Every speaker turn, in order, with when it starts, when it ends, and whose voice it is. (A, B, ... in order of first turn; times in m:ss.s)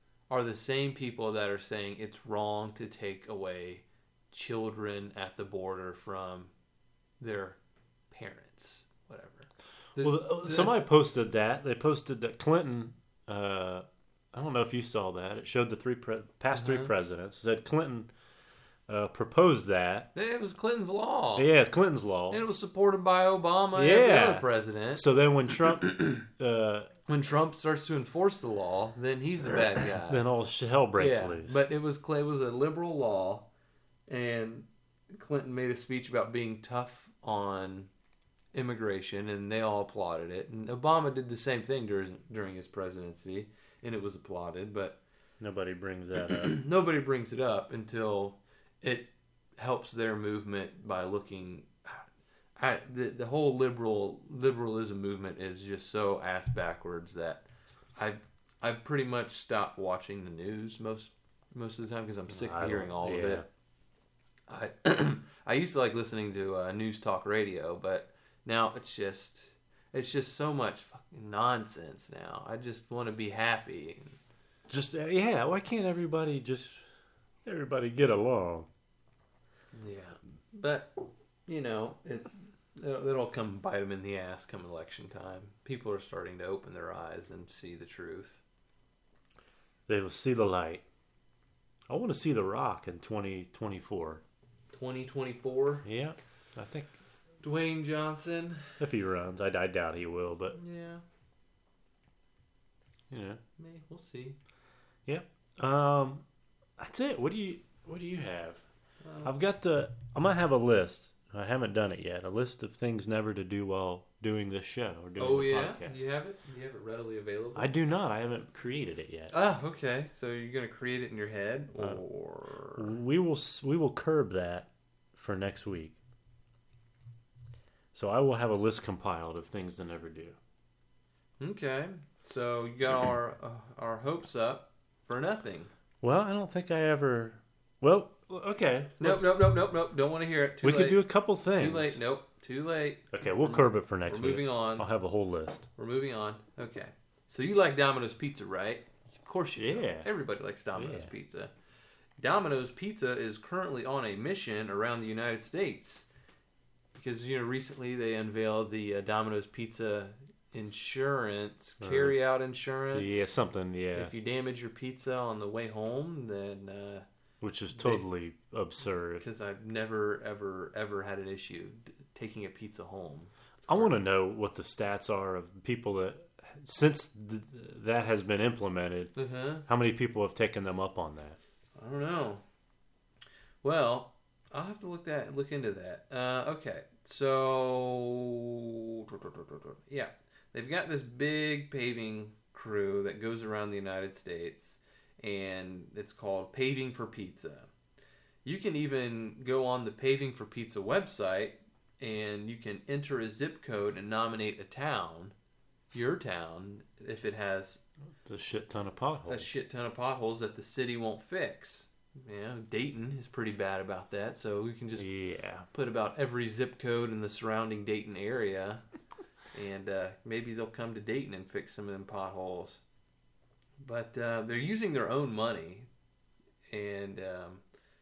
0:00.3-0:06.5 A
0:07.2-0:07.6 A
0:08.1-0:10.7 A
0:10.0-0:18.1 B
0:16.5-0:16.9 A
0:18.9-0:20.1 B
0:20.2-0:21.5 A
0:21.4-0:22.4 B
0:22.3-0:25.0 A
0:23.7-0:26.9 B
0:25.8-0:26.2 A
0:27.1-0:30.2 A
0:29.8-0:31.6 B
0:31.0-0:33.5 A
0:34.1-0:37.9 A
0:38.5-0:45.0 A
0:45.4-0:46.6 B
0:46.3-0:52.0 A
0:52.6-1:03.4 A
1:02.3-1:03.5 B
1:04.5-1:14.2 A
1:14.7-1:16.8 B
1:17.4-1:18.7 B
1:19.7-1:21.0 A
1:21.5-1:28.4 A
1:29.9-1:30.8 B
1:31.9-1:34.2 B
1:34.7-1:35.8 A
1:35.8-1:36.9 B
1:37.4-1:38.8 A
1:38.8-1:40.6 B
1:40.5-1:41.0 A
1:43.1-1:43.4 B
1:43.6-1:44.4 A
1:45.1-1:46.2 B
1:46.8-1:48.6 B
1:49.0-1:49.4 A
1:49.2-1:56.0 B
1:55.2-1:57.7 A
1:57.6-1:59.3 B
1:59.3-2:02.9 A
2:02.8-2:06.0 B
2:07.9-2:10.4 B
2:11.4-2:15.7 A
2:16.0-2:19.4 B
2:19.0-2:21.0 A
2:20.6-2:22.0 B
2:21.5-2:24.9 A
2:23.1-2:25.7 B
2:25.8-2:31.5 A
2:29.6-2:30.1 B
2:30.8-2:31.1 B
2:32.2-2:36.1 A
2:37.0-2:43.3 A
2:41.8-2:42.2 B
2:42.9-2:44.1 B
2:44.0-2:47.1 A
2:47.4-2:49.2 B
2:47.7-2:48.0 A
2:49.2-2:53.9 A
2:53.7-2:59.1 B
2:59.2-2:59.7 A
2:59.7-3:01.4 B
3:01.8-3:02.4 A
3:03.6-3:17.7 A
3:18.4-3:25.4 A
3:25.9-3:27.8 A
3:28.2-3:29.5 B
3:29.3-3:35.1 A
3:35.0-3:35.7 B
3:35.7-3:38.8 A
3:39.5-3:42.8 A
3:43.8-3:45.9 A
3:46.7-3:47.6 A